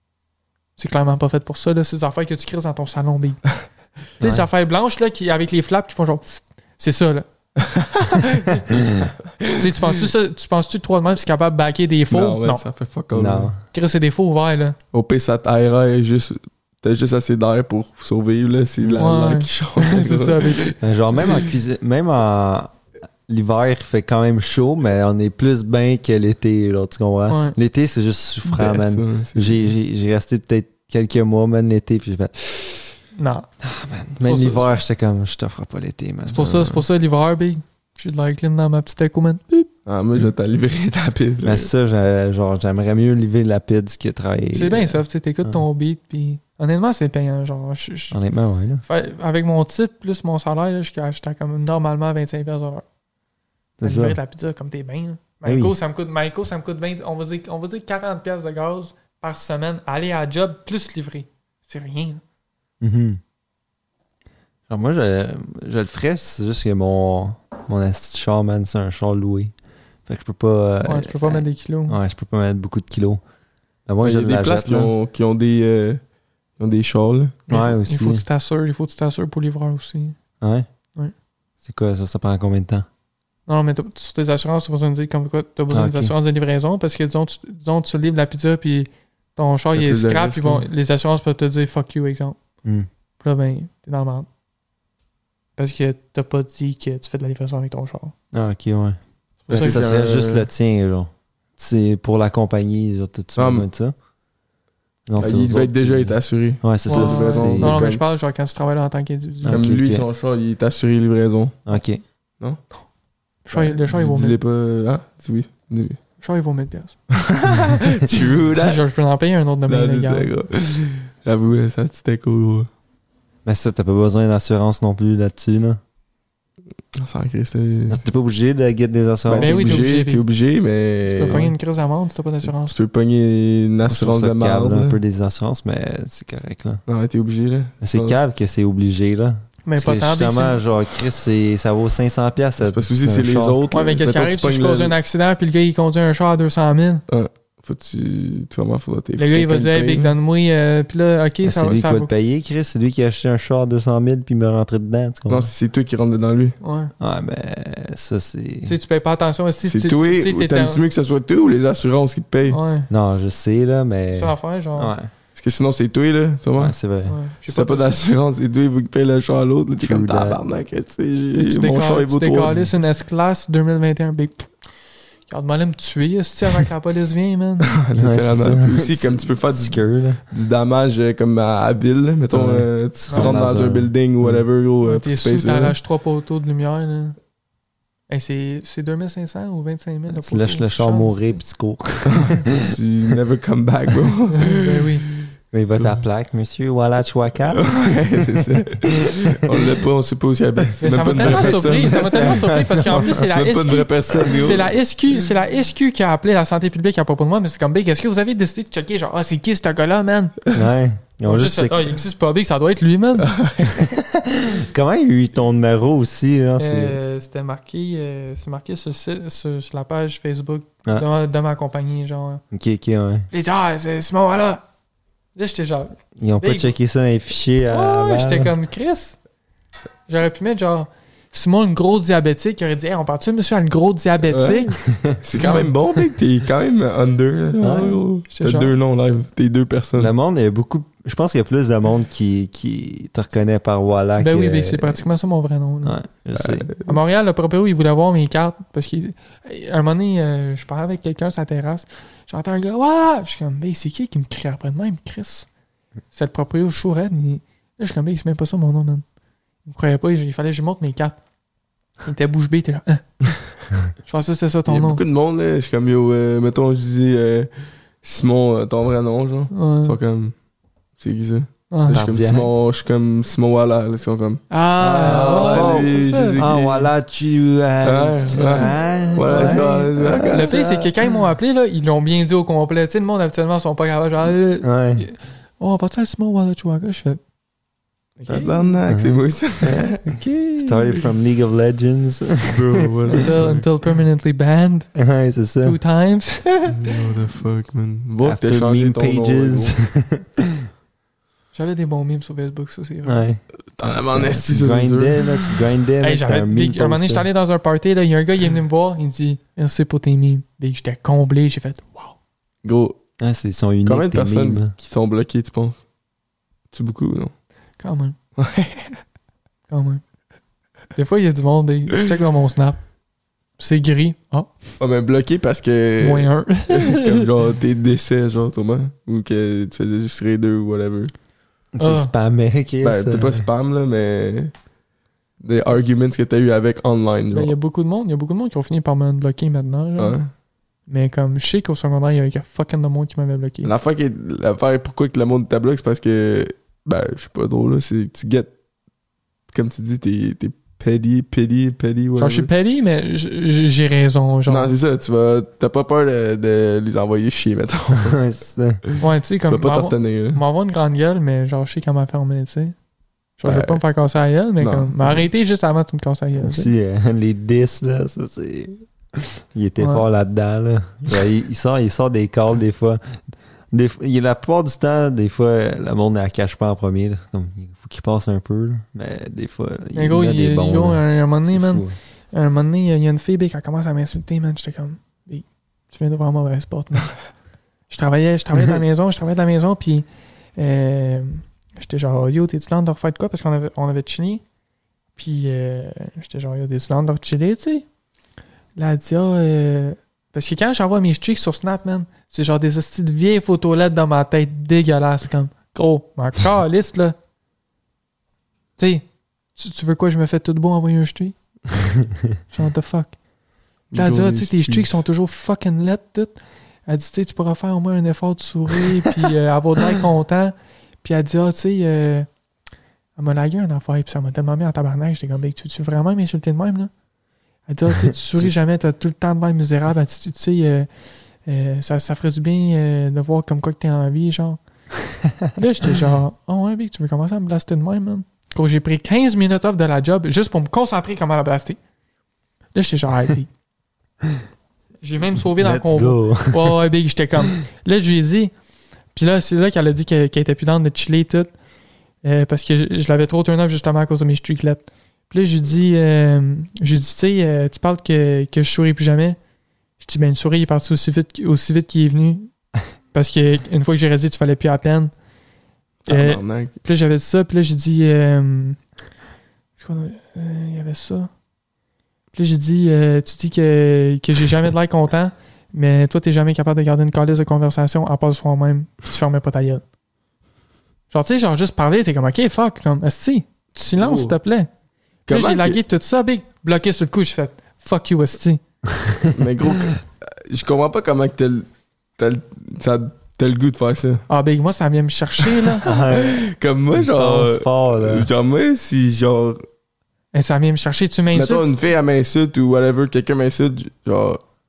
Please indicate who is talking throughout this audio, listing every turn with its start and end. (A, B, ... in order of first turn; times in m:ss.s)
0:00.8-0:03.6 A
0:04.2-0:07.3 A
0:04.2-0:04.5 B
0:07.6-0:08.6 C
0:08.8-0:09.1 B
0:09.4-0:10.0 C
0:09.5-0:12.6 A
0:12.1-0:13.5 C
0:13.1-0:13.6 B
0:13.7-0:14.8 A
0:14.9-0:21.4 C
0:19.0-0:21.4 A
0:20.8-0:32.9 B
0:27.3-0:27.6 A
0:28.4-0:29.7 C
0:33.2-0:33.5 A
0:33.6-0:36.5 B
0:34.2-0:34.7 A
0:36.3-0:39.7 A
0:36.4-0:36.8 C
0:39.8-0:41.7 C
0:41.4-0:45.6 B
0:44.5-0:48.2 A
0:48.1-0:48.8 B
0:48.8-0:52.8 A
0:53.8-0:54.2 B
0:53.8-1:02.2 A
0:55.4-0:55.7 B
1:02.8-1:03.2 B
1:04.7-1:09.5 B
1:10.0-1:13.2 B
1:10.8-1:12.0 A
1:13.9-1:14.9 B
1:14.0-1:16.0 C
1:16.6-1:17.4 C
1:17.5-1:18.2 B
1:17.5-1:20.2 A
1:20.4-1:20.7 B
1:21.6-1:22.8 B
1:23.5-1:32.4 A
1:25.7-1:26.1 B
1:29.7-1:30.6 C
1:33.2-1:34.3 A
1:35.6-1:38.1 A
1:38.3-1:39.0 B
1:39.5-1:40.5 C
1:39.5-1:39.8 A
1:39.5-1:43.9 B
1:43.4-1:43.6 C
1:45.1-1:47.8 B
1:45.2-1:48.0 C
1:46.9-1:49.7 A
1:49.4-1:50.0 B
1:49.5-1:51.6 C
1:51.7-1:52.0 B
1:53.4-1:54.4 A
1:53.5-1:56.0 C
1:56.2-1:57.1 A
1:57.3-1:58.8 C
1:58.5-2:00.3 A
1:59.7-2:02.7 C
2:03.4-2:05.8 B
2:06.9-2:08.0 C
2:07.9-2:09.8 B
2:09.3-2:11.5 C
2:09.4-2:10.2 A
2:11.1-2:12.8 A
2:12.6-2:15.0 C
2:13.9-2:16.8 B
2:16.9-2:18.2 C
2:17.8-2:23.6 B
2:19.6-2:20.6 A
2:22.6-2:24.9 C
2:23.7-2:27.0 A
2:27.1-2:30.1 C
2:29.2-2:32.1 A
2:31.4-2:35.5 B
2:35.3-2:36.6 C
2:36.6-2:36.9 A
2:37.0-2:38.8 B
2:38.6-2:40.8 A
2:39.7-2:42.6 C
2:42.5-2:42.9 A
2:42.9-2:45.1 B
2:44.1-2:44.9 A
2:45.4-2:46.7 C
2:46.6-2:47.2 B
2:47.1-2:48.1 A
2:47.5-2:52.6 C
2:49.8-2:50.4 B
2:51.3-2:54.5 A
2:55.3-2:57.8 A
2:57.7-3:05.7 C
2:58.0-3:00.2 B
3:02.3-3:04.4 B
3:03.1-3:03.4 A
3:04.8-3:07.2 A
3:08.1-3:11.4 A
3:10.1-3:12.5 B
3:12.0-3:15.2 C
3:14.4-3:15.0 A
3:15.5-3:17.8 B
3:17.5-3:24.7 C
3:18.3-3:19.7 B
3:20.8-3:30.5 A
3:21.1-3:23.2 B
3:30.5-3:32.0 B
3:31.2-3:33.4 A
3:33.2-3:33.9 C
3:33.7-3:37.0 B
3:36.6-3:42.4 A
3:42.5-3:43.3 B
3:43.3-3:44.6 A
3:45.3-3:46.7 A
3:46.2-3:48.5 B
3:47.7-3:49.2 A
3:50.1-3:54.8 A
3:54.3-4:00.1 C
3:55.4-3:55.7 A
3:57.6-3:58.0 B
3:58.3-3:58.7 A
4:00.0-4:05.0 B
4:04.2-4:06.0 A
4:05.8-4:06.7 B
4:06.3-4:07.0 C
4:06.8-4:15.5 A
4:16.1-4:19.0 A
4:19.6-4:21.2 A
4:22.0-4:25.0 A
4:24.7-4:27.5 C
4:28.0-4:30.3 C
4:29.5-4:30.0 A
4:31.0-4:36.9 C
4:31.7-4:32.0 A
4:31.9-4:32.5 B
4:34.5-4:36.4 A
4:35.0-4:40.9 B
4:37.8-4:40.5 C
4:39.3-4:47.2 A
4:44.6-4:45.0 B
4:48.2-4:48.7 A
4:48.3-4:50.0 C
4:48.9-4:49.2 B
4:50.0-4:50.9 A
4:50.6-4:53.2 B
4:52.4-4:53.7 C
4:53.1-4:54.9 A
4:55.0-4:55.8 B
4:55.6-4:57.0 A
4:56.7-4:59.7 C
4:58.2-5:00.7 B
5:01.5-5:03.2 A
5:03.0-5:03.4 B
5:03.8-5:05.2 C
5:04.1-5:07.2 B
5:06.0-5:12.1 A
5:12.6-5:13.0 C
5:13.2-5:14.7 B
5:13.8-5:15.8 C
5:16.7-5:17.3 C
5:17.8-5:18.2 A
5:18.4-5:19.0 C
5:19.7-5:20.0 A
5:20.9-5:22.8 A
5:23.6-5:24.8 A
5:24.8-5:31.1 C
5:26.0-5:27.2 A
5:31.7-5:33.5 B
5:31.8-5:32.1 A
5:32.8-5:34.6 C
5:35.4-5:37.5 C
5:37.3-5:40.2 A
5:40.0-5:40.3 C
5:40.9-5:43.7 A
5:43.6-5:48.5 C
5:49.5-5:52.5 C
5:52.2-5:54.7 A
5:54.5-5:58.2 C
5:58.0-5:58.8 B
5:58.9-6:00.4 C
5:59.0-6:02.7 A
6:03.4-6:06.7 A
6:03.4-6:03.8 C
6:04.6-6:05.2 C
6:06.4-6:22.0 B
6:09.8-6:10.0 A
6:19.9-6:27.3 A
6:27.9-6:34.4 A
6:35.2-6:37.8 A
6:38.8-6:47.2 A
6:48.8-6:51.4 A
6:52.5-6:53.2 A
6:53.9-6:55.0 C
6:53.9-7:02.3 A
7:03.2-7:06.9 A
7:07.7-7:10.9 A
7:11.4-7:14.6 A
7:15.5-7:21.8 A
7:22.7-7:23.5 A
7:25.0-7:28.5 A
7:25.6-7:26.8 B
7:29.1-7:31.5 A
7:32.2-7:39.4 A
7:40.0-7:42.5 A
7:43.1-7:45.1 A
7:46.0-7:46.7 C
7:46.1-7:48.8 A
7:49.8-7:51.3 A
7:52.3-7:59.8 A
8:01.1-8:04.7 A
8:03.9-8:04.3 C
8:05.3-8:05.8 C
8:05.3-8:08.6 A
8:09.2-8:11.6 C
8:12.2-8:14.2 C
8:14.3-8:15.8 A
8:15.8-8:16.4 B
8:15.8-8:19.6 C
8:17.0-8:18.3 B
8:20.3-8:21.8 A
8:21.3-8:24.4 C